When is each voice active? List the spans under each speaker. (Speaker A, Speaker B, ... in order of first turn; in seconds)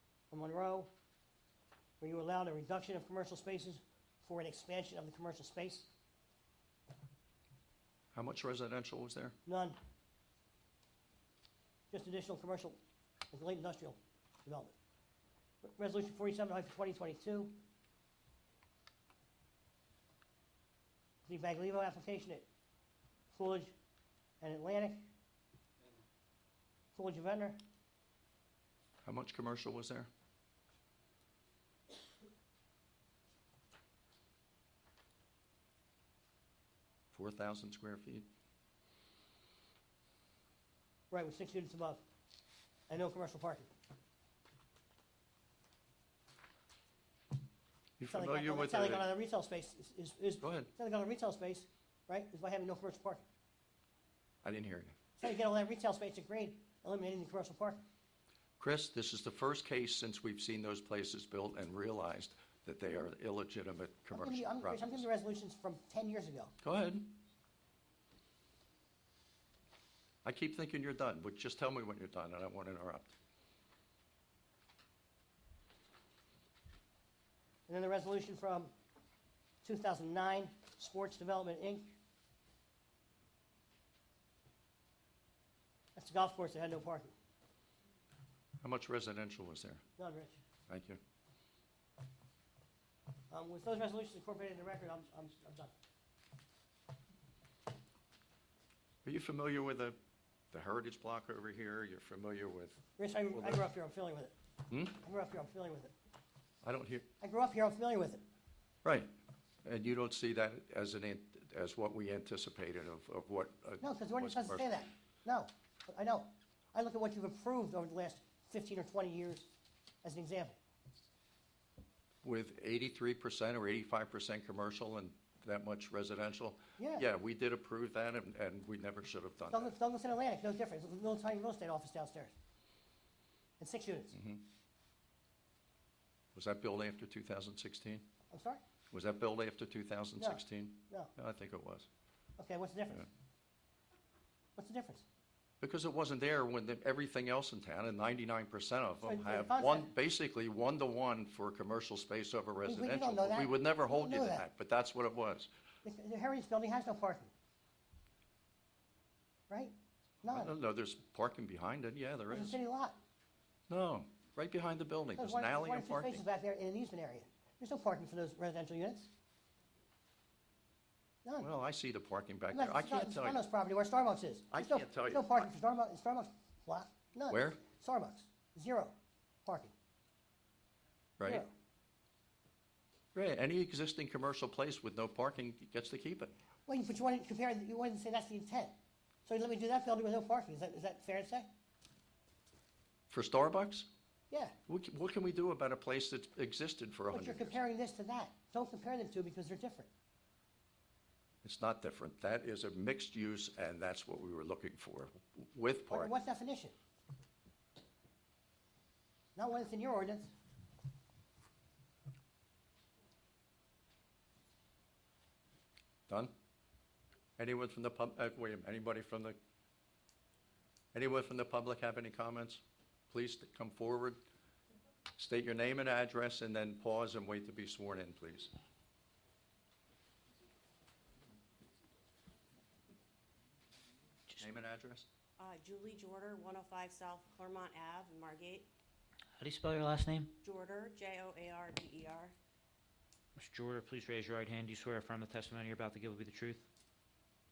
Speaker A: 0.3-0.9, 2.0-5.9, 9.4-9.8, 11.9-12.8, 13.3-14.7, 15.6-17.6, 21.2-22.4, 23.3-23.7, 24.4-25.1, 26.9-27.6, 41.1-42.0, 42.9-43.7, 48.1-53.2, 55.2-57.8, 64.1-66.5, 77.7-78.7, 79.6-81.9, 86.0-87.1, 90.0-90.4, 93.3-95.7, 103.0-104.3, 104.9-105.9, 107.2-108.2, 113.8-119.5, 120.0-120.6, 126.8-127.0, 129.5-132.3, 133.6-134.2, 138.3-138.6, 140.2-141.1, 142.4-143.1, 144.6-145.0, 149.0-149.9, 152.6-154.5, 155.8-157.3, 159.5-160.5, 162.3-163.0, 165.2-169.1, 172.5-178.9, 179.4-179.7, 181.2-181.5, 186.7-191.5, 194.3-194.5, 197.1-199.9, 205.9-206.7, 209.3-210.3
Speaker B: 8.1-9.3, 29.0-30.1, 37.1-38.3, 48.0-49.0, 50.4-50.7, 54.4-54.9, 58.6-65.0, 66.6-67.2, 70.2-73.1, 88.6-89.8, 90.7-91.0, 99.0-100.0, 100.5-102.8, 103.3-103.6, 104.7-105.0, 106.6-107.0, 108.8-109.1, 109.6-114.7, 122.2-129.7, 134.1-134.4, 136.3-138.1, 138.9-141.9, 145.6-155.5, 160.2-162.6, 163.7-166.2, 171.4-173.4, 174.5-175.5, 177.3-177.6, 181.2-181.4, 183.1-186.3, 193.1-193.9, 194.7-197.6, 201.4-206.1, 216.1-216.3, 217.4-219.4, 220.9-224.2, 225.2-228.5, 234.4-235.1
Speaker C: 235.4-238.7, 240.4-242.3
Speaker D: 239.4-240.3, 243.3-246.6